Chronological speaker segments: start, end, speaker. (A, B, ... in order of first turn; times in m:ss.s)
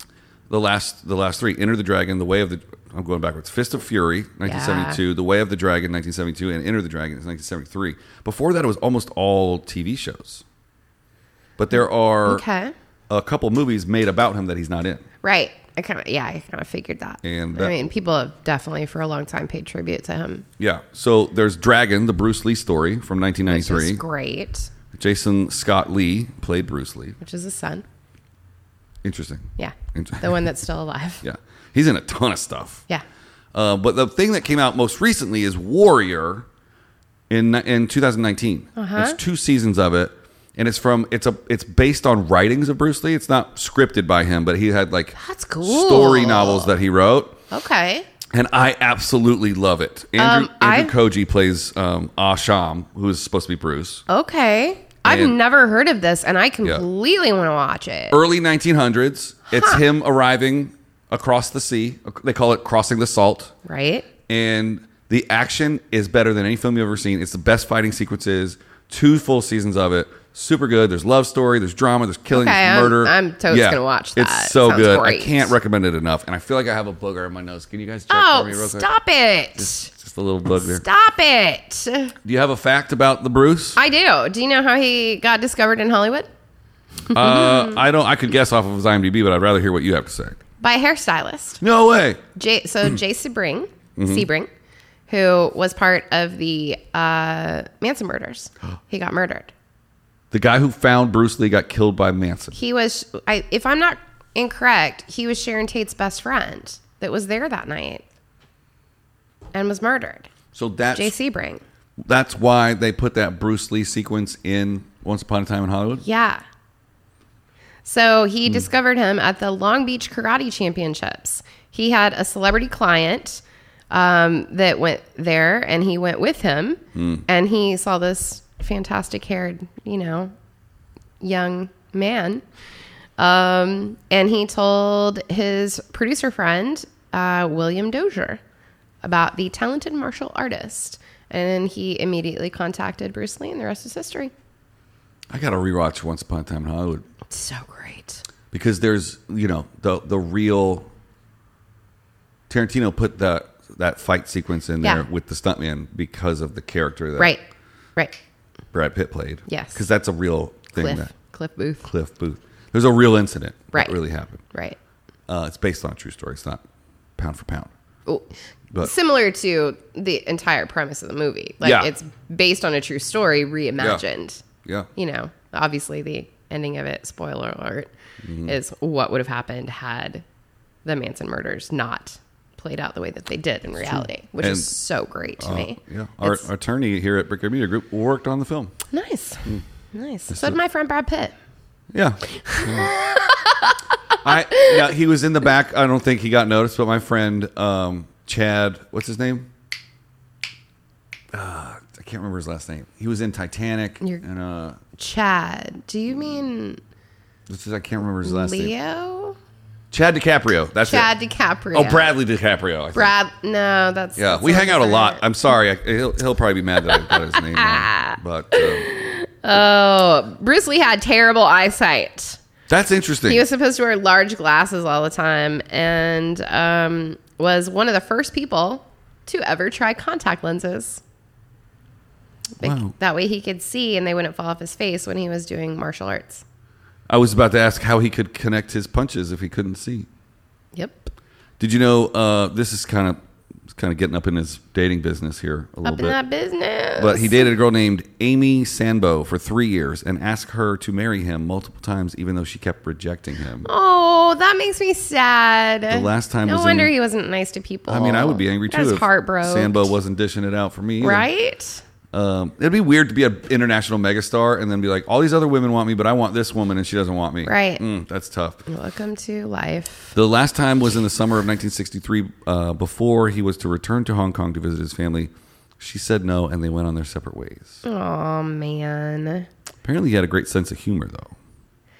0:00.5-0:10.4 A
0:04.4-0:05.0 B
0:11.6-0:12.4 A
0:11.7-0:12.7 B
0:13.1-0:15.0 A
0:15.2-0:20.4 B
0:17.2-0:17.8 A
0:20.6-0:24.0 A
0:23.4-0:24.7 B
0:24.9-0:27.2 A
0:27.2-0:27.8 B
0:29.0-0:30.4 A
0:29.6-0:31.2 B
0:31.2-0:32.8 A
0:33.5-0:36.4 A
0:37.3-0:47.4 A
0:38.8-0:39.2 B
0:45.1-0:46.7 B
0:47.5-0:48.0 B
0:48.3-0:54.0 A
0:50.2-0:50.9 B
0:54.1-0:58.2 B
0:55.0-0:55.4 A
0:58.1-1:03.5 A
0:59.5-0:59.8 B
1:03.6-1:04.1 B
1:04.3-1:18.9 A
1:12.3-1:15.5 B
1:18.1-1:19.9 B
1:19.6-1:20.8 A
1:20.6-1:22.1 B
1:22.2-1:23.8 A
1:23.7-1:26.3 B
1:27.1-1:27.8 B
1:27.1-1:30.4 A
1:30.6-1:31.6 B
1:31.6-1:32.2 A
1:32.4-1:34.5 B
1:34.0-1:34.3 A
1:35.1-1:39.5 B
1:40.3-1:42.6 A
1:42.5-1:48.0 B
1:49.5-1:50.3 B
1:50.5-1:51.1 A
1:50.9-1:51.6 B
1:52.1-1:56.0 A
1:56.0-1:56.4 B
1:57.8-2:10.3 B
2:06.9-2:07.2 A
2:11.2-2:12.4 B
2:13.2-2:18.4 B
2:19.0-2:24.3 B
2:25.3-2:27.0 A
2:27.3-2:28.2 B
2:28.5-2:30.9 A
2:32.5-2:37.4 A
2:34.8-2:35.1 B
2:37.2-2:37.4 B
2:38.7-2:41.1 A
2:39.5-2:39.8 B
2:40.7-2:41.9 B
2:41.8-2:44.4 A
2:43.7-2:44.8 B
2:45.3-2:46.6 A
2:47.2-2:47.7 A
2:48.1-2:54.4 B
2:51.6-2:51.9 A
2:53.8-2:54.0 A
2:54.9-2:57.9 B
2:58.2-2:58.6 A
2:58.4-3:00.2 B
3:00.8-3:06.5 B
3:03.8-3:04.8 A
3:05.4-3:08.7 A
3:08.9-3:11.3 B
3:10.3-3:10.6 A
3:11.9-3:12.9 A
3:12.3-3:14.9 B
3:14.2-3:19.5 A
3:21.3-3:24.8 A
3:24.9-3:26.8 B
3:27.5-3:28.7 A
3:28.2-3:29.4 B
3:29.9-3:31.1 A
3:30.8-3:32.1 B
3:31.7-3:33.1 A
3:32.9-3:35.2 B
3:34.2-3:38.9 A
3:36.8-3:42.4 B
3:42.7-3:43.4 A
3:43.3-3:51.0 B
3:52.6-3:56.4 B
3:52.6-3:52.9 A
3:57.1-4:00.1 A
4:00.7-4:01.1 B
4:01.6-4:03.2 A
4:03.7-4:06.2 A
4:05.8-4:07.5 B
4:07.0-4:13.7 A
4:13.6-4:20.0 B
4:15.9-4:16.9 A
4:17.9-4:21.3 A
4:21.0-4:21.8 B
4:22.1-4:28.6 A
4:27.4-4:27.8 B
4:28.7-4:30.1 B
4:30.1-4:37.8 A
4:37.8-4:39.5 B
4:39.8-4:41.3 A